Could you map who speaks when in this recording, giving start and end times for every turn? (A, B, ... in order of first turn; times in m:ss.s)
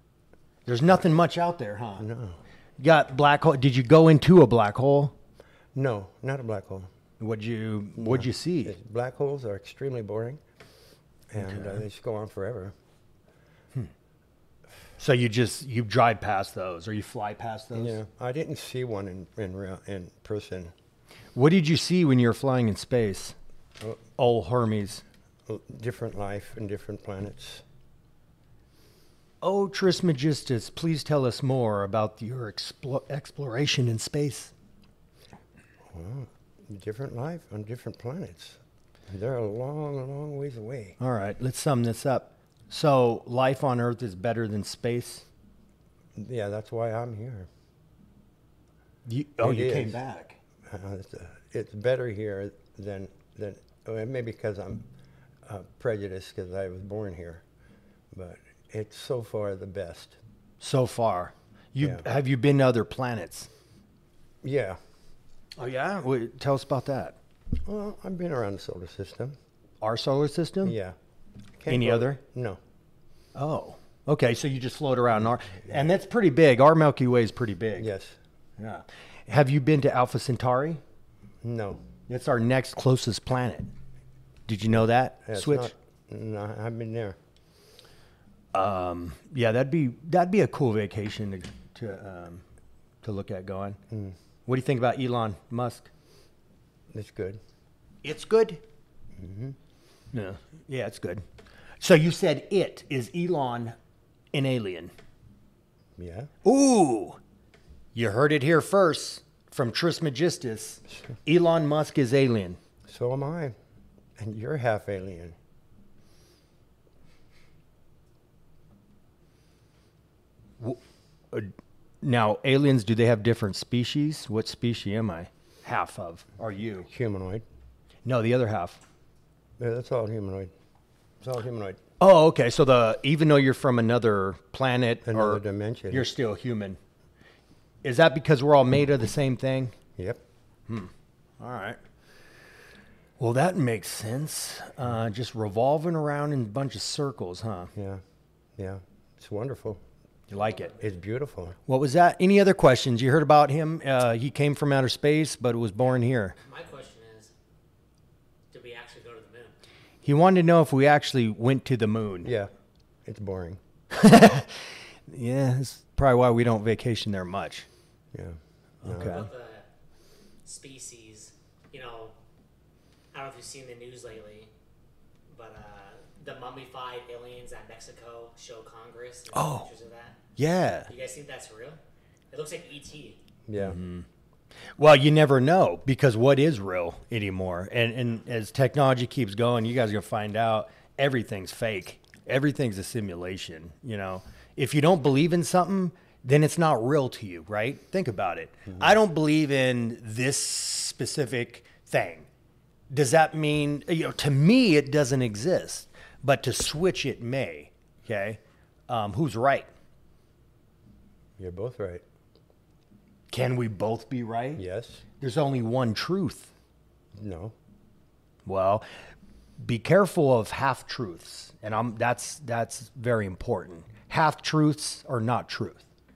0:00.7-0:02.1 A
0:02.0-0:02.4 B
0:02.8-0:05.1 A
0:05.7-0:06.9 B
0:07.2-0:08.8 A
0:08.0-0:10.4 B
0:11.3-0:12.8 B
0:11.4-0:11.8 A
0:15.0-0:18.0 A
0:17.7-0:20.7 B
0:21.4-0:23.4 A
0:24.2-0:25.0 A
0:25.5-0:27.6 B
0:29.4-0:34.5 A
0:35.9-0:41.0 B
0:41.0-0:45.3 A
0:46.2-0:47.5 B
0:49.1-0:50.4 A
0:49.4-0:50.0 B
0:50.7-0:54.9 B
0:55.4-0:57.4 B
0:58.1-1:00.2 B
1:00.6-1:03.5 A
1:01.8-1:02.0 B
1:04.4-1:04.8 B
1:05.6-1:07.2 A
1:07.7-1:09.4 B
1:09.8-1:10.8 A
1:10.6-1:11.0 B
1:11.6-1:12.6 B
1:11.7-1:12.2 A
1:13.4-1:17.9 A
1:17.8-1:18.2 B
1:18.6-1:20.8 A
1:21.4-1:21.8 B
1:22.1-1:23.7 A
1:24.5-1:25.7 A
1:25.2-1:27.2 B
1:28.5-1:32.4 A
1:33.0-1:33.8 A
1:33.9-1:34.2 B
1:34.5-1:35.9 A
1:36.9-1:37.4 B
1:38.0-1:38.6 A
1:39.2-1:39.6 B
1:40.1-1:41.2 A
1:41.8-1:43.8 A
1:44.3-1:44.9 A
1:46.0-1:46.3 B
1:46.4-1:47.2 A
1:47.9-1:52.6 A
1:52.9-1:53.6 B
1:54.2-1:55.4 B
2:01.3-2:06.9 A
2:06.9-2:07.4 B
2:08.0-2:08.8 A
2:09.6-2:10.5 B
2:11.2-2:11.8 B
2:12.0-2:16.8 A
2:15.1-2:16.1 B
2:17.8-2:19.8 A
2:20.7-2:21.8 A
2:23.2-2:27.7 A
2:27.8-2:28.0 B
2:28.6-2:29.8 B
2:30.3-2:30.7 A
2:30.8-2:31.6 B
2:31.7-2:36.4 A
2:36.4-2:37.3 C
2:38.5-2:39.6 C
2:40.0-2:42.3 A
2:42.2-2:42.5 B
2:43.0-2:43.6 B
2:43.9-2:47.7 A
2:48.1-2:49.2 B
2:48.8-2:49.3 A
2:49.0-2:49.6 C
2:50.4-2:52.1 C
2:53.1-2:54.5 C
2:55.3-3:00.2 C
2:59.3-2:59.7 A
3:00.4-3:00.9 A
3:00.9-3:01.8 C
3:02.3-3:03.2 C
3:03.5-3:03.8 B
3:03.6-3:04.1 A
3:04.8-3:22.3 A
3:22.9-3:29.7 A
3:31.4-3:32.0 B
3:33.3-3:34.6 A
3:34.6-3:35.0 B
3:35.2-3:36.5 A
3:37.2-3:37.6 B
3:38.4-3:38.9 A
3:39.6-3:45.9 A